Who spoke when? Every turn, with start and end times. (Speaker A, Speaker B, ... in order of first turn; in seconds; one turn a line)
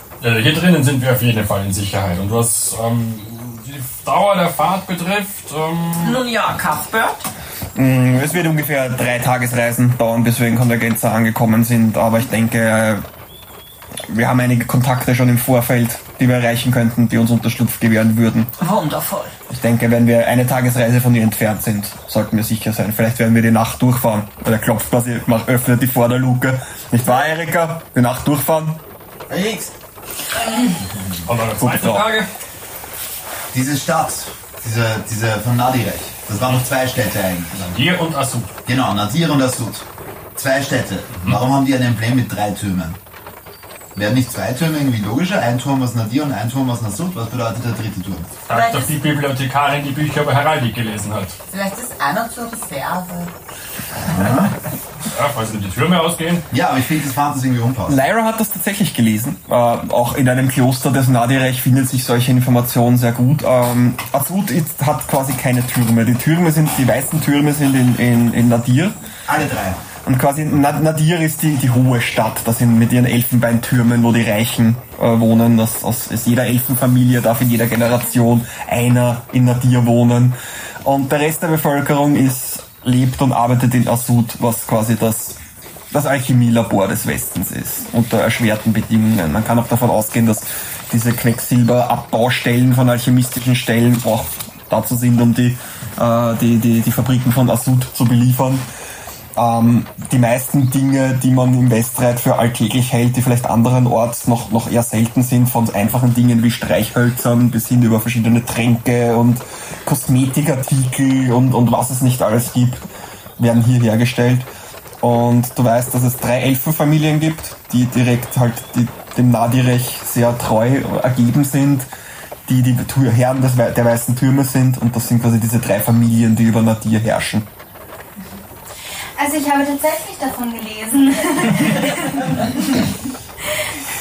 Speaker A: 0.2-6.2
Speaker B: 6.0-7.3
Speaker C: 7.8-13.1
Speaker C: 14.1-18.5
Speaker B: 18.6-19.3
Speaker C: 19.5-28.8
Speaker D: 29.3-29.7
Speaker A: 31.2-32.3
Speaker C: 31.6-32.1
Speaker E: 33.5-37.6
Speaker A: 37.5-38.5
Speaker E: 38.7-39.9
Speaker E: 40.4-43.0
Speaker E: 44.0-48.4
Speaker A: 48.5-51.4
Speaker D: 48.5-49.0
Speaker D: 51.5-53.3
Speaker E: 54.1-54.5
Speaker A: 55.1-56.5
Speaker E: 56.5-58.0
Speaker C: 57.9-69.0
Speaker E: 69.3-69.8
Speaker C: 70.0-85.4
Speaker C: 85.9-98.7
Speaker C: 99.4-112.8
Speaker C: 113.4-114.5
Speaker C: 115.0-121.9
Speaker C: 122.5-127.5
Speaker F: 129.2-132.9